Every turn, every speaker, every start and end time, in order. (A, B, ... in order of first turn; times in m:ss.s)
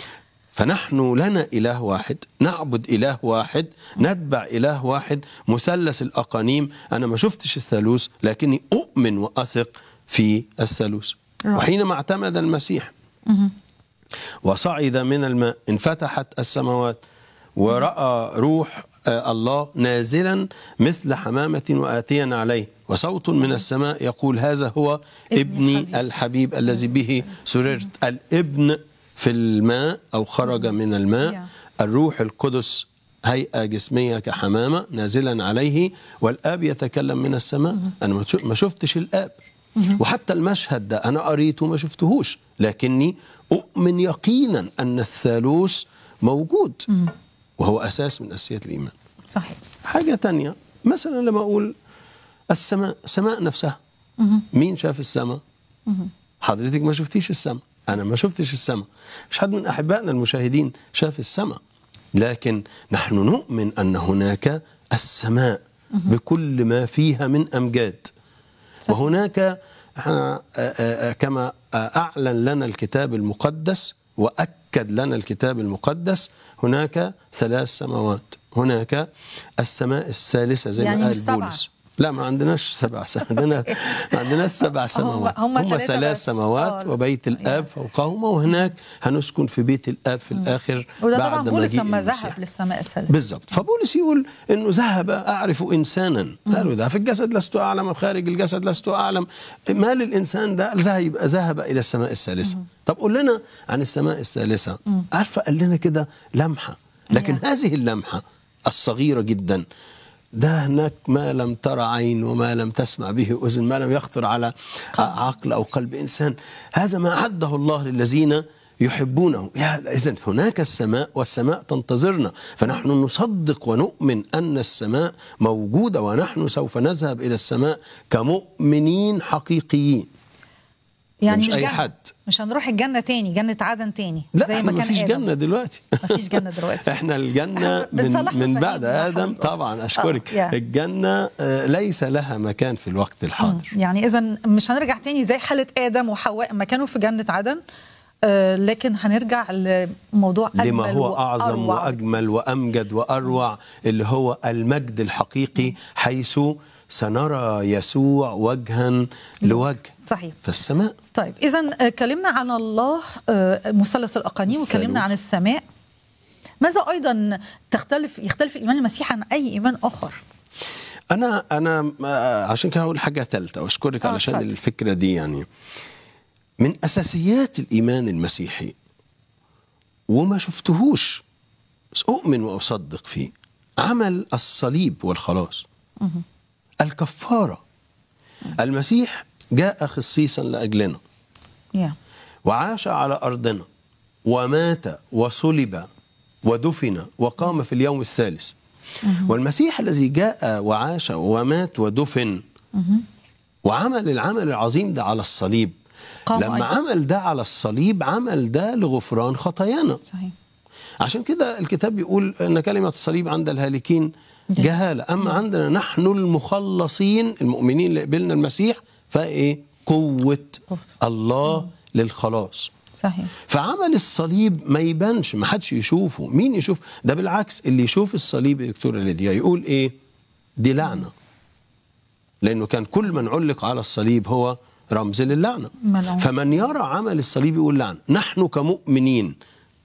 0:00.5-0:12.9 A
0:13.3-0:13.5 B
0:14.4-0:17.0 A
0:17.6-0:39.4 A
0:25.3-0:26.0 B
0:26.8-0:27.3 B
0:40.0-0:46.9 A
0:47.6-0:48.9 A
0:49.3-0:49.6 B
0:49.8-0:51.7 A
0:52.5-0:53.8 A
0:54.2-0:54.4 B
0:54.5-0:55.4 A
0:56.4-1:01.6 A
1:02.1-1:08.1 A
1:08.9-1:32.4 A
1:20.8-1:21.6 B
1:24.9-1:27.7 B
1:30.4-1:33.1 B
1:33.1-1:49.6 A
1:47.1-1:47.4 B
1:50.3-2:10.1 A
2:11.2-2:15.3 B
2:11.3-2:12.1 A
2:14.3-2:23.7 A
2:16.0-2:16.9 B
2:17.6-2:20.6 B
2:23.4-2:27.6 B
2:28.2-2:32.2 B
2:30.6-2:41.0 A
2:39.4-2:40.4 B
2:41.1-2:45.6 B
2:44.5-2:45.1 A
2:46.6-2:50.2 B
2:51.1-2:55.5 A
2:54.0-2:54.5 B
2:56.6-2:58.8 A
3:00.1-3:01.2 A
3:01.9-3:05.6 A
3:06.8-3:07.6 A
3:08.6-3:11.0 A
3:12.5-3:13.6 A
3:14.3-3:15.9 A
3:16.4-3:18.6 A
3:19.0-3:19.3 B
3:19.2-3:22.4 A
3:22.8-3:23.0 B
3:23.6-3:25.7 A
3:26.3-3:26.7 B
3:26.3-3:30.0 A
3:31.0-3:42.7 A
3:43.0-3:43.3 B
3:43.5-3:49.9 A
3:50.6-3:51.1 A
3:52.4-3:59.4 A
3:55.9-3:56.3 B